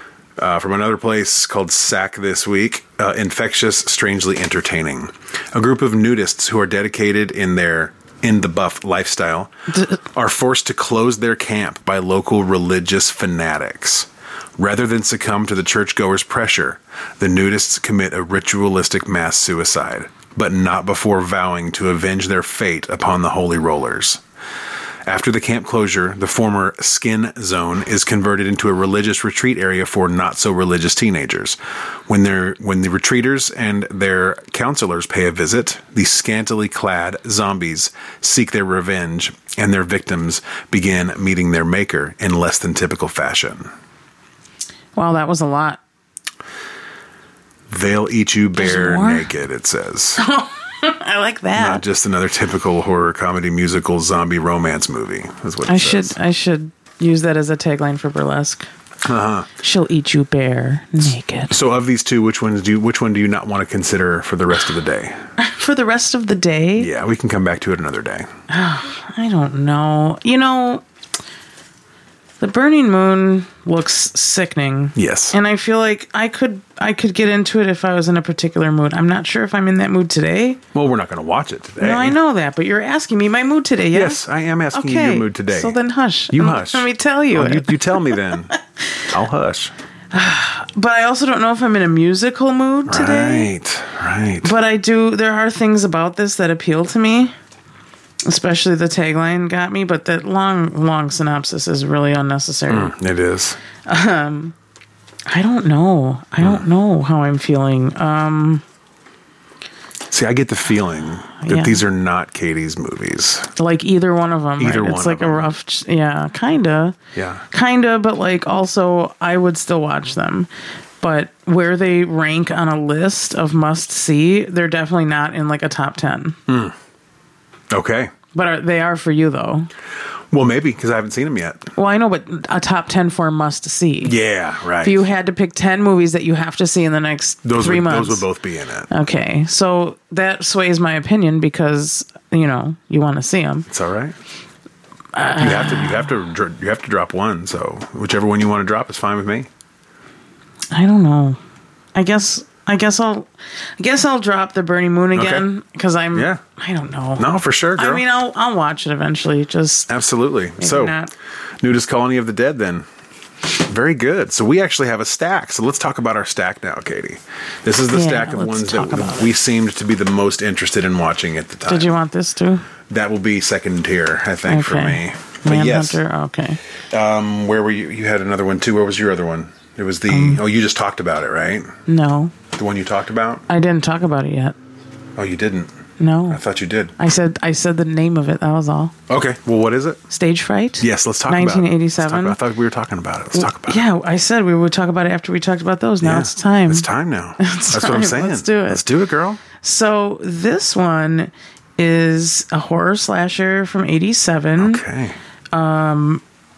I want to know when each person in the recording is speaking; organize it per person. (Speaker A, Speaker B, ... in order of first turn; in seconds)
Speaker A: 0.4-9.5, 10.1-24.2, 25.1-43.7, 47.7-50.2, 51.6-56.2, 59.0-59.5, 61.5-65.2, 66.8-68.3, 75.0-75.4, 80.7-82.2, 83.9-85.8, 86.3-88.5, 89.1-89.7, 92.9-94.5, 102.7-103.6, 110.1-113.5, 114.6-115.5, 117.2-117.4, 126.5-126.8, 127.7-128.1, 130.3-131.7, 134.0-135.0, 137.4-138.9, 143.7-144.2, 145.4-149.5, 155.1-155.5, 156.1-156.4, 157.2-158.0, 159.9-161.0, 161.6-162.9, 163.6-171.9, 172.9-176.0, 176.9-181.8, 182.5-183.4, 185.2-185.7, 186.3-186.9, 189.1-190.0, 190.8-193.8, 196.0-199.4, 204.6-205.2
Speaker B: 9.7-10.0, 45.0-45.8, 48.6-49.3, 50.2-51.8, 55.7-58.7, 59.6-61.5, 65.4-66.9, 68.5-70.8, 72.4-80.6, 81.8-88.2, 90.1-93.5, 94.4-97.3, 98.2-102.9, 103.9-104.5, 105.3-108.6, 111.4-111.8, 113.6-117.0, 117.5-120.5, 121.0-126.4, 128.3-129.7, 131.8-134.2, 134.8-138.3, 138.9-143.7, 145.1-146.0, 150.7-151.4, 151.9-153.3, 153.8-159.9, 160.6-161.1, 167.9-169.3, 171.7-172.7, 174.5-176.6, 180.1-180.4, 181.9-182.3, 183.5-184.6, 186.0-186.4, 187.0-188.9, 190.1-192.4, 193.3-196.9, 197.4-198.8, 199.6-204.8, 205.5-206.2